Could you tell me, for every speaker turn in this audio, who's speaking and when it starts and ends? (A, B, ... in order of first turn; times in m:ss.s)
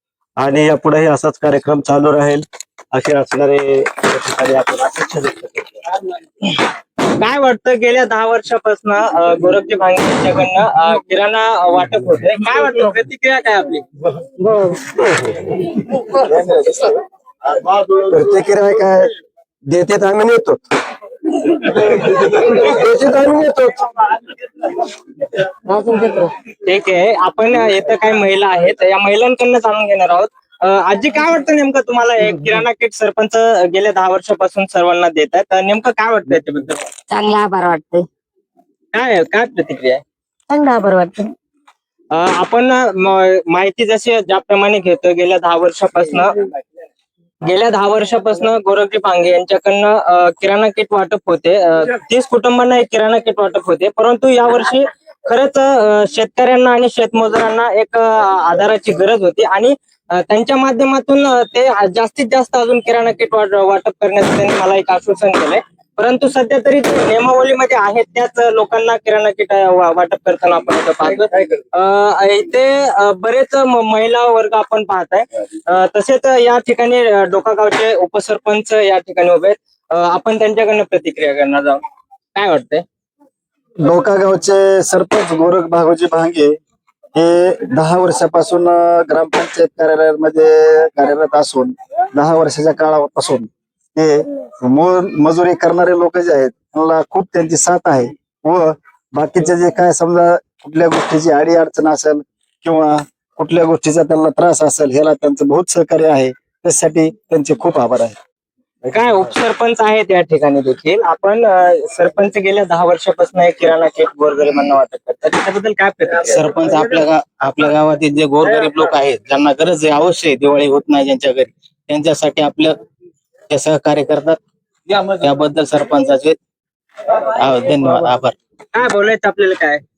0:00.4-0:05.8 A
0:07.2-0:13.8 B
0:16.2-0:16.8 C
0:17.8-0:19.0 C
0:19.8-0:20.4 C
0:22.6-0:23.7 A
0:25.7-0:26.3 D
0:26.7-0:36.8 B
0:37.1-0:38.1 D
0:38.9-0:40.0 B
0:40.5-0:41.3 D
0:42.1-0:46.4 B
0:47.4-1:21.8 B
1:22.3-1:22.8 B
1:23.8-1:26.6 C
1:27.2-1:48.2 C
1:48.9-1:56.5 B
1:56.2-2:02.8 E
2:03.5-2:06.4 E
2:07.2-2:08.4 E
2:08.7-2:09.8 B